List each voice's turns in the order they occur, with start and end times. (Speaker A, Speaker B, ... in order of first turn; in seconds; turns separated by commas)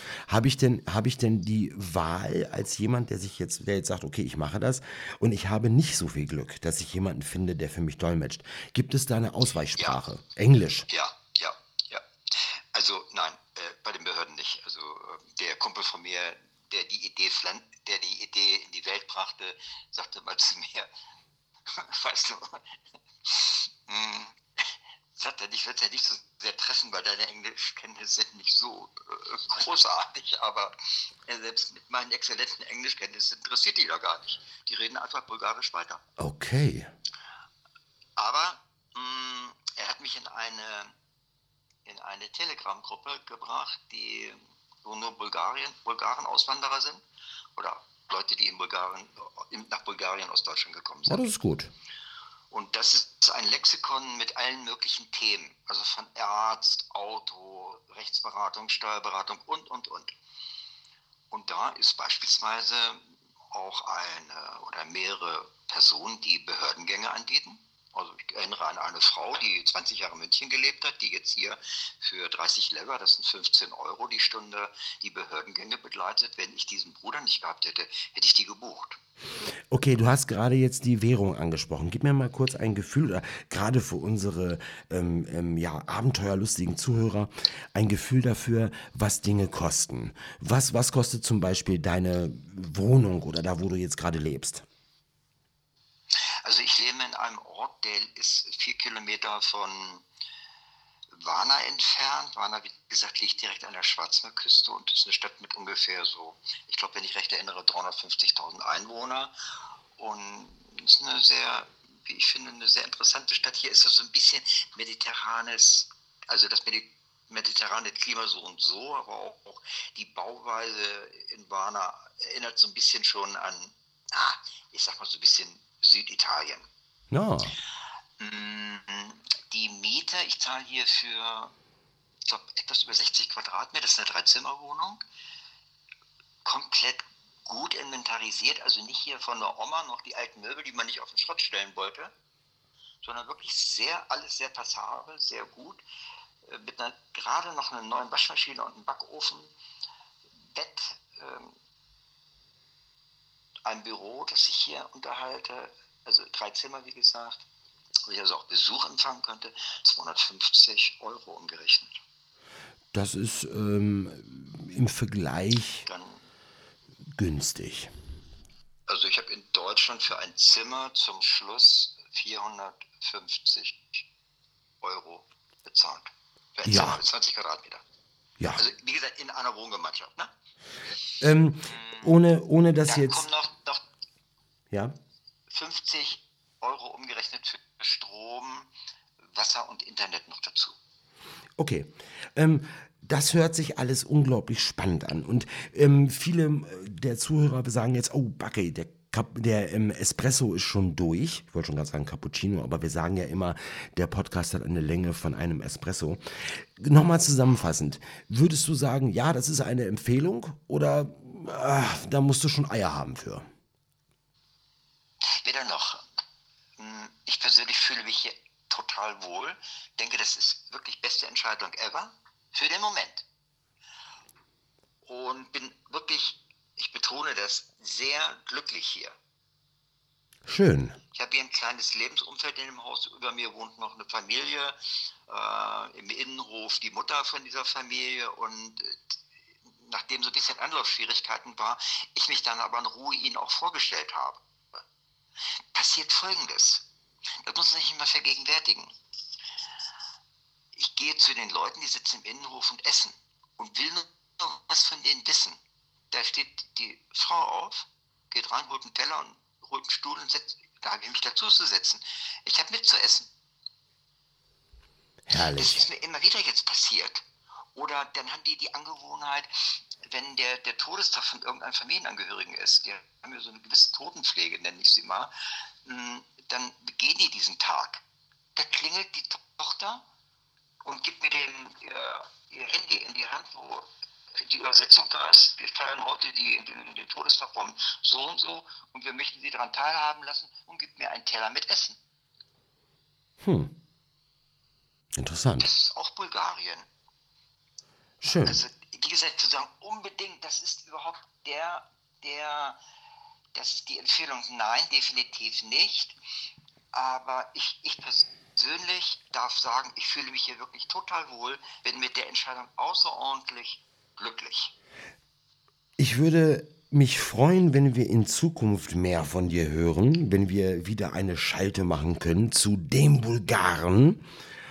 Speaker A: 0.3-10.9, Speaker B: 9.8-10.0, Speaker B: 10.9-20.9, Speaker B: 21.7-22.7, Speaker B: 23.3-24.4, Speaker B: 25.1-30.7, Speaker B: 31.2-36.0, Speaker A: 36.2-36.9, Speaker B: 38.2-40.9, Speaker B: 41.9-47.0, Speaker B: 47.6-51.3, Speaker A: 51.1-51.7, Speaker B: 52.5-60.1, Speaker B: 61.3-79.0, Speaker A: 79.7-94.7, Speaker B: 96.4-100.1, Speaker B: 101.1-109.3, Speaker B: 110.0-126.7, Speaker A: 127.1-127.6, Speaker B: 128.2-131.5, Speaker B: 132.3-135.0, Speaker B: 136.4-142.1, Speaker B: 143.0-145.8, Speaker B: 146.5-149.5, Speaker B: 150.4-151.6, Speaker B: 153.7-157.5, Speaker B: 158.1-162.0, Speaker A: 162.9-165.9, Speaker B: 165.8-166.2, Speaker A: 167.2-167.9, Speaker B: 168.9-174.0, Speaker B: 174.8-177.8, Speaker A: 176.7-177.0, Speaker B: 178.6-180.3, Speaker A: 181.2-183.3, Speaker B: 181.7-182.1, Speaker B: 182.9-183.8, Speaker A: 184.7-185.0, Speaker B: 185.5-188.7, Speaker B: 189.3-190.8, Speaker A: 191.6-213.5, Speaker B: 215.4-216.0, Speaker B: 216.8-223.2, Speaker B: 225.1-229.2, Speaker A: 230.5-231.0, Speaker B: 231.1-234.8, Speaker B: 235.3-239.1, Speaker B: 239.7-244.4, Speaker B: 245.7-246.9, Speaker B: 247.4-248.9, Speaker B: 250.7-255.6, Speaker B: 256.1-263.3, Speaker A: 265.3-265.9, Speaker B: 265.3-269.5, Speaker B: 270.1-275.3, Speaker B: 275.8-278.0, Speaker B: 278.6-280.0, Speaker B: 280.8-292.0, Speaker A: 293.4-293.7, Speaker A: 295.2-295.7, Speaker B: 295.6-296.9, Speaker A: 298.2-298.6, Speaker B: 298.4-302.8, Speaker B: 303.5-306.2, Speaker B: 306.9-314.7, Speaker A: 316.0-324.2